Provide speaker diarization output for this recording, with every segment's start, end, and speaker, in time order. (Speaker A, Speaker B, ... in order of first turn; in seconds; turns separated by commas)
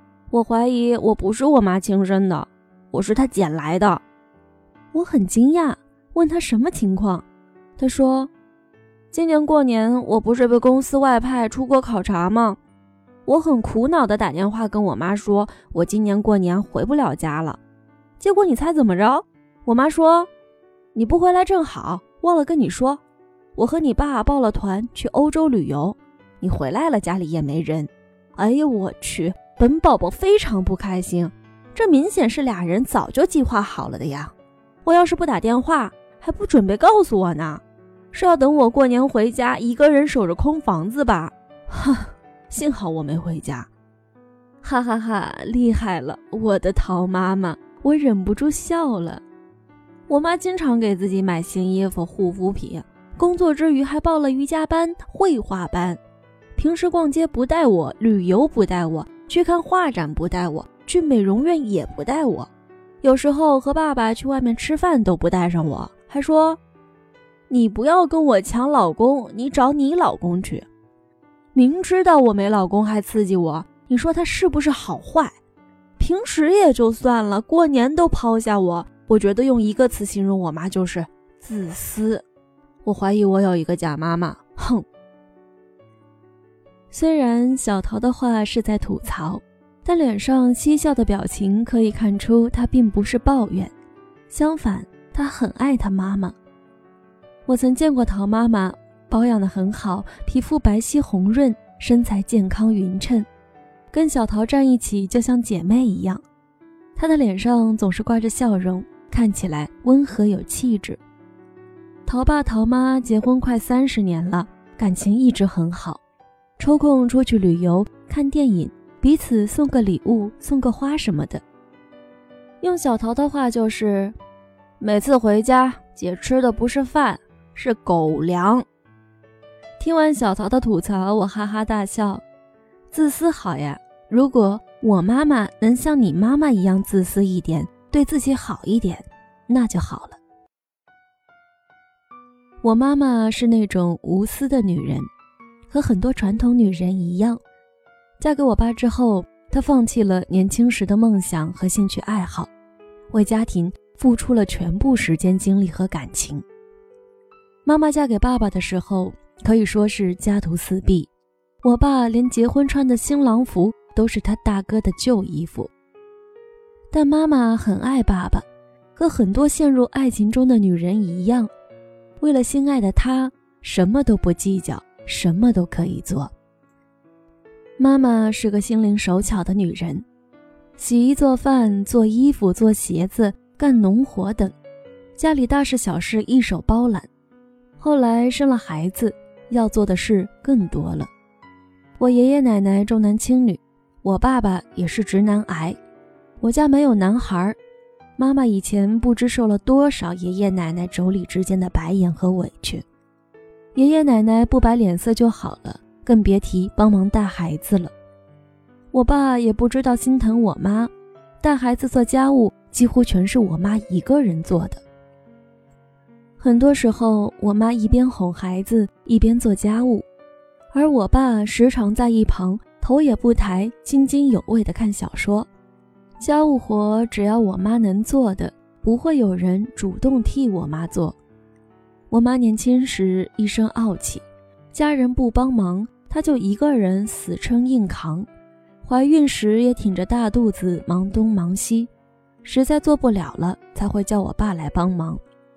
Speaker A: 0.3-4.0, Speaker A: 4.9-7.2, Speaker A: 7.8-8.3, Speaker A: 9.1-12.6, Speaker A: 13.2-17.6, Speaker A: 18.2-20.3, Speaker A: 20.9-23.0, Speaker A: 23.6-43.7, Speaker A: 44.6-49.2, Speaker A: 50.1-56.0, Speaker A: 56.5-62.5, Speaker A: 63.0-66.6, Speaker A: 67.5-70.7, Speaker A: 71.5-75.3, Speaker A: 76.0-82.2, Speaker A: 82.8-84.8, Speaker A: 86.9-93.7, Speaker A: 94.3-96.3, Speaker A: 97.5-103.3, Speaker A: 103.9-106.2, Speaker A: 107.0-111.0, Speaker A: 112.0-116.0, Speaker A: 116.6-121.4, Speaker A: 122.6-124.2, Speaker A: 124.8-128.7, Speaker A: 129.8-132.2, Speaker A: 132.9-140.2, Speaker A: 142.6-145.1, Speaker A: 145.7-147.4, Speaker A: 148.2-152.5, Speaker A: 153.1-156.4, Speaker A: 157.6-161.1, Speaker A: 161.6-165.7, Speaker A: 166.9-168.4, Speaker A: 168.9-171.5, Speaker A: 172.2-176.3, Speaker A: 177.8-180.1, Speaker A: 180.8-184.5, Speaker A: 185.2-187.1, Speaker A: 187.8-191.1, Speaker A: 192.0-195.8, Speaker A: 196.4-197.6, Speaker A: 198.2-202.8, Speaker A: 203.7-207.9, Speaker A: 208.9-214.8, Speaker A: 216.4-220.1, Speaker A: 220.7-225.5, Speaker A: 226.2-231.2, Speaker A: 232.1-238.3, Speaker A: 238.8-241.9, Speaker A: 242.4-245.2